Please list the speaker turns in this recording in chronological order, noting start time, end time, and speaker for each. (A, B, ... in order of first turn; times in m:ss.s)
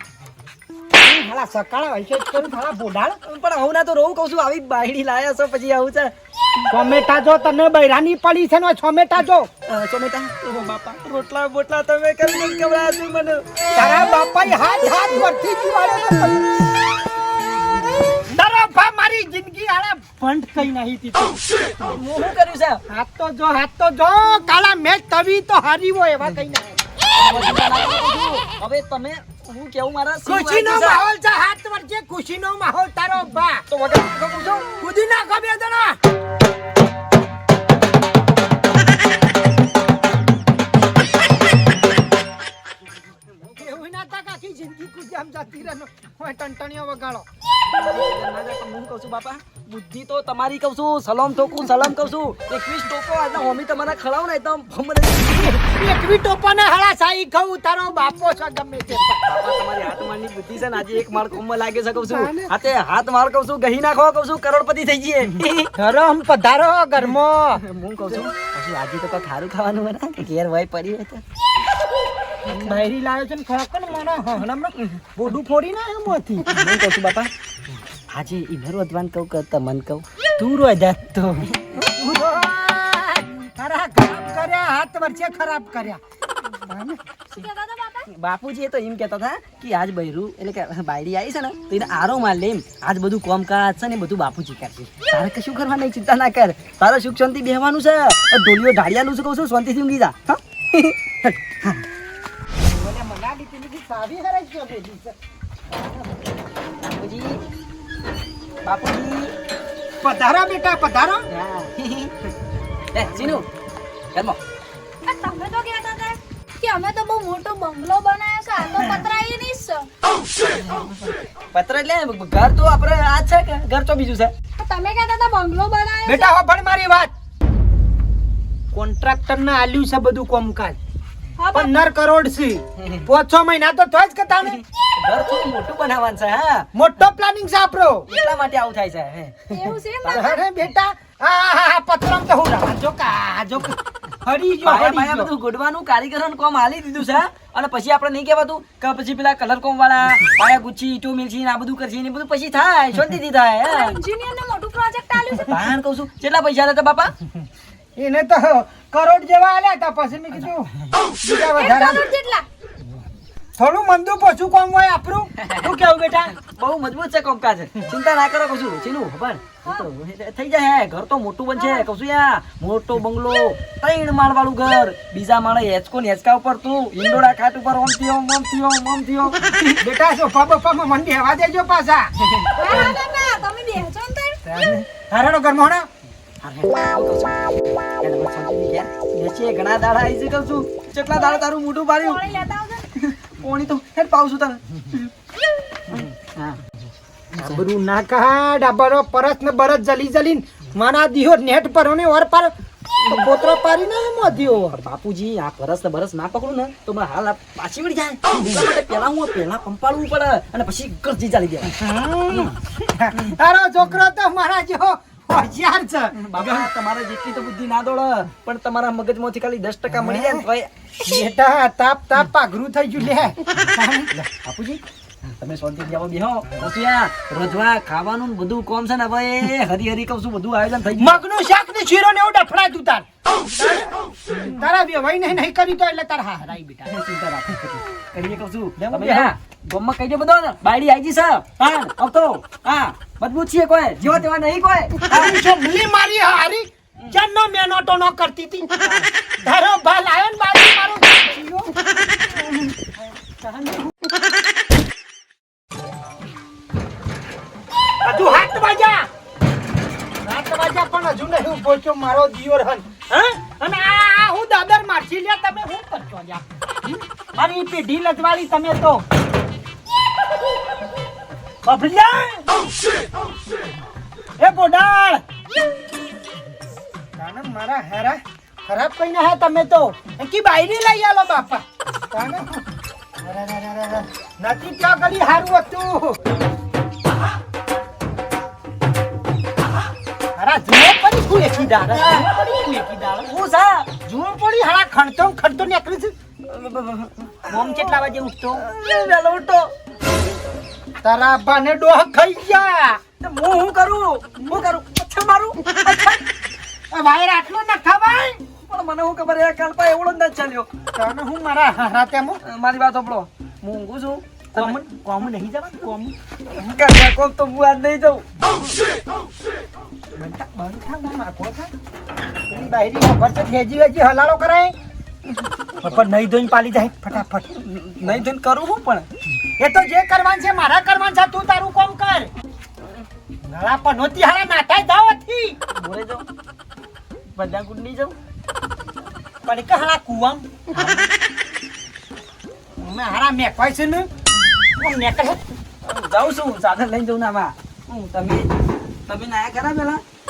0:01.0-0:03.2 A
0:03.2-0:06.1 B
0:06.7-0:09.5 A
0:09.7-0:13.5 B
0:13.7-0:16.5 A
0:18.3-0:21.4 A
0:21.8-0:22.8 B
0:22.9-0:26.7 A
0:27.2-0:31.0 B
0:30.3-0:33.6 A
0:33.7-0:34.7 B
0:34.8-0:36.0 A
0:43.5-0:47.2 A
0:47.5-0:55.6 B
0:55.4-0:59.3 A
0:59.2-1:05.7 B
1:02.0-1:02.5 A
1:05.8-1:07.6 A
1:07.6-1:11.2 B
1:12.5-1:16.5 A
1:16.4-1:17.3 B
1:18.1-1:20.0 B
1:20.4-1:26.0 A
1:26.6-1:27.0 A
1:27.3-1:28.1 C
1:28.1-1:41.3 B
1:42.6-1:45.1 A
1:45.7-1:46.1 A
1:46.8-1:47.4 B
1:48.6-1:49.3 B
1:50.0-1:51.3 A
1:51.3-1:52.2 B
1:52.9-1:53.5 B
1:54.1-1:54.4 B
1:55.0-1:59.9 C
2:00.4-2:04.3 B
2:04.6-2:06.3 C
2:06.1-2:07.1 A
2:08.7-2:10.8 A
2:11.4-2:11.7 C
2:11.5-2:14.6 A
2:15.0-2:16.7 B
2:16.7-2:18.1 A
2:18.1-2:20.3 B
2:19.5-2:20.4 C
2:20.1-2:25.3 A
2:24.6-2:34.0 B
2:33.6-2:35.5 C
2:35.3-2:37.1 B
2:38.0-2:40.7 A
2:41.2-2:42.0 A
2:41.4-2:42.4 C
2:43.6-2:46.3 A
2:45.4-2:45.7 B
2:46.4-2:59.8 B
2:51.6-2:51.9 C
2:59.8-3:02.1 A
3:02.3-3:02.9 B
3:02.6-3:04.4 C
3:04.4-3:05.9 A
3:06.4-3:07.4 B
3:08.0-3:12.3 B
3:11.1-3:12.9 C
3:13.0-3:15.1 B
3:15.9-3:16.6 B
3:17.4-3:17.6 B
3:17.4-3:24.8 A
3:24.7-3:31.8 B
3:28.3-3:28.7 A
3:31.7-3:36.7 A
3:36.2-3:40.7 B
3:39.9-3:40.5 A
3:41.0-3:44.2 A
3:44.3-3:51.2 B
3:51.0-3:53.9 A
3:54.4-3:56.9 A
3:56.9-4:05.4 B
3:58.8-3:59.3 A
4:05.1-4:11.7 A
4:13.0-4:13.9 A
4:18.0-4:19.1 A
4:20.2-4:26.5 A
4:27.4-4:29.0 A
4:31.6-4:32.4 A
4:34.4-4:35.2 A
4:37.2-4:42.6 A
4:43.2-4:46.2 A
4:50.4-4:53.3 A
4:51.9-4:52.3 B
4:53.3-4:53.9 B
4:54.0-4:56.1 A
4:56.4-4:58.0 B
4:57.5-4:58.6 A
4:58.6-4:59.7 B
5:01.0-5:03.0 A
5:03.2-5:06.2 B
5:06.9-5:08.4 A
5:08.7-5:10.7 B
5:11.0-5:12.4 A
5:12.4-5:14.8 B
5:14.5-5:16.8 A
5:16.6-5:18.2 B
5:20.2-5:21.7 A
5:22.5-5:24.8 A
5:25.8-5:27.5 A
5:27.5-5:29.1 B
5:29.6-5:32.3 A
5:33.4-5:35.6 A
5:35.8-5:36.3 B
5:37.3-5:38.2 B
5:39.4-5:40.5 A
5:42.8-5:44.1 A
5:44.8-5:45.4 A
5:45.8-5:48.5 B
5:49.1-5:50.0 B